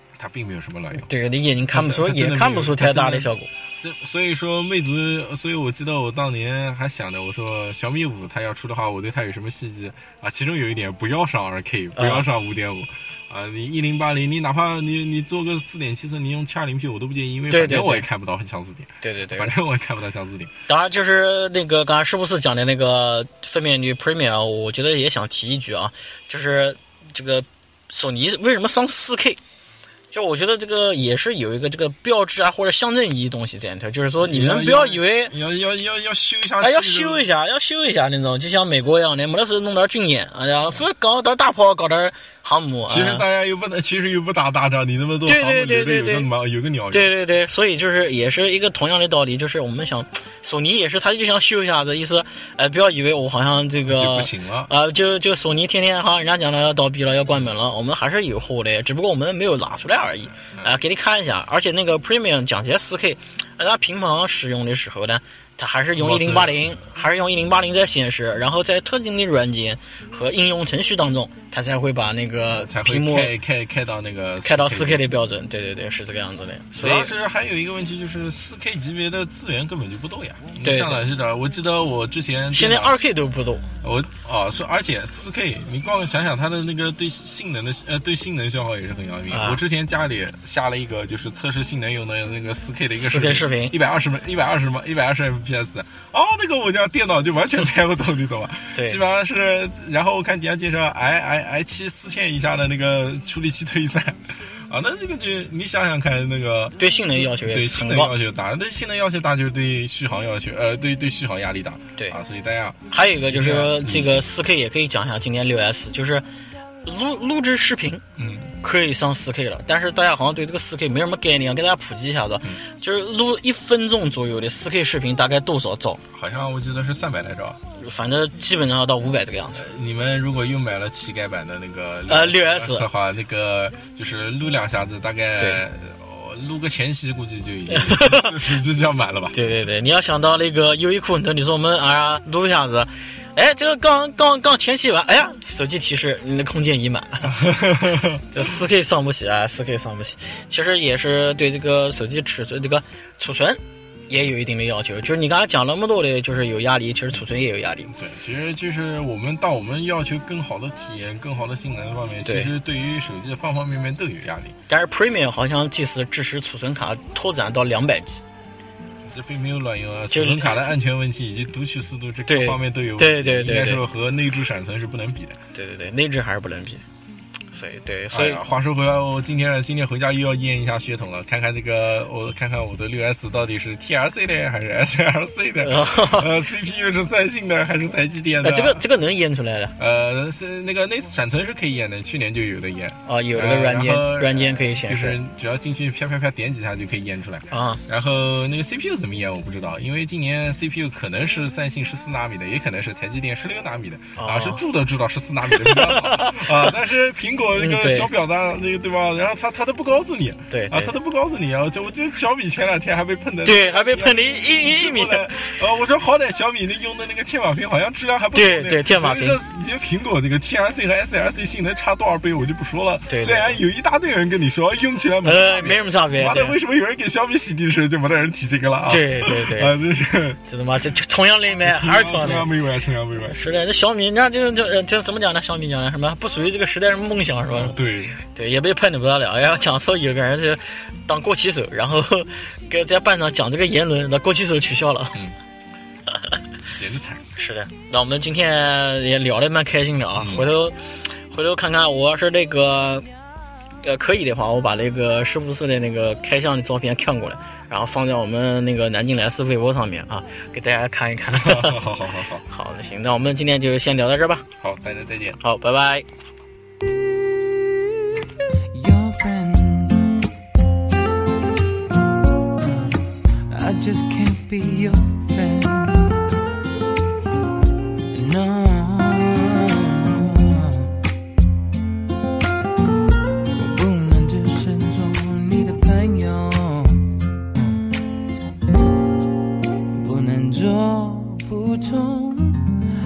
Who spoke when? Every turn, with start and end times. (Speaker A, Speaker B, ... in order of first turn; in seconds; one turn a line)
Speaker A: 0.1-1.1
Speaker B: 1.0-3.5
Speaker A: 1.7-20.5
Speaker B: 11.9-12.3
Speaker B: 17.5-18.1
Speaker B: 19.0-19.5
Speaker B: 20.7-29.4
Speaker B: 30.1-35.3
Speaker A: 34.2-37.2
Speaker B: 36.6-43.2
Speaker A: 42.9-47.1
Speaker B: 45.2-46.3
Speaker B: 46.9-73.3
Speaker A: 53.9-54.7
Speaker A: 65.9-66.8
Speaker A: 72.5-75.0
Speaker B: 74.4-77.1
Speaker A: 76.7-83.0
Speaker B: 80.6-81.0
Speaker B: 82.5-83.7
Speaker A: 83.8-114.3
Speaker B: 89.3-89.6
Speaker B: 93.0-93.7
Speaker B: 98.7-99.0
Speaker B: 106.8-108.1
Speaker B: 112.9-116.2
Speaker B: 116.8-118.0
Speaker A: 118.2-118.5
Speaker B: 118.6-126.0
Speaker A: 126.1-127.6
Speaker B: 127.8-129.6
Speaker A: 129.5-139.4
Speaker B: 132.1-132.8
Speaker B: 137.7-138.3
Speaker B: 139.3-147.6
Speaker A: 147.2-148.2
Speaker B: 148.2-157.9
Speaker A: 157.9-164.6
Speaker B: 162.2-162.5
Speaker B: 164.7-168.2
Speaker A: 169.0-175.4
Speaker B: 170.1-170.5
Speaker B: 172.3-173.8
Speaker B: 175.5-176.8
Speaker B: 177.5-178.4
Speaker A: 178.1-188.8
Speaker B: 185.6-186.3
Speaker B: 188.4-189.7
Speaker A: 189.8-230.4
Speaker B: 193.1-195.2
Speaker B: 197.5-197.8
Speaker B: 204.2-204.6
Speaker B: 205.5-206.7
Speaker B: 207.6-208.1
Speaker B: 210.5-210.9
Speaker B: 213.4-215.5
Speaker B: 218.3-219.4
Speaker B: 223.1-223.6
Speaker B: 225.2-226.6
Speaker B: 228.9-229.7
Speaker B: 230.5-232.5
Speaker A: 231.7-233.3
Speaker B: 233.3-245.2
Speaker A: 237.5-238.2
Speaker A: 246.7-247.3
Speaker B: 247.3-250.8
Speaker A: 250.2-250.5
Speaker B: 251.3-253.1
Speaker B: 253.8-261.9
Speaker A: 261.3-262.4
Speaker B: 262.4-264.4
Speaker A: 264.6-265.4
Speaker B: 265.4-266.1
Speaker C: 268.7-270.3
Speaker C: 272.6-276.4
Speaker C: 278.1-281.0
Speaker C: 283.5-287.9
Speaker C: 289.9-292.8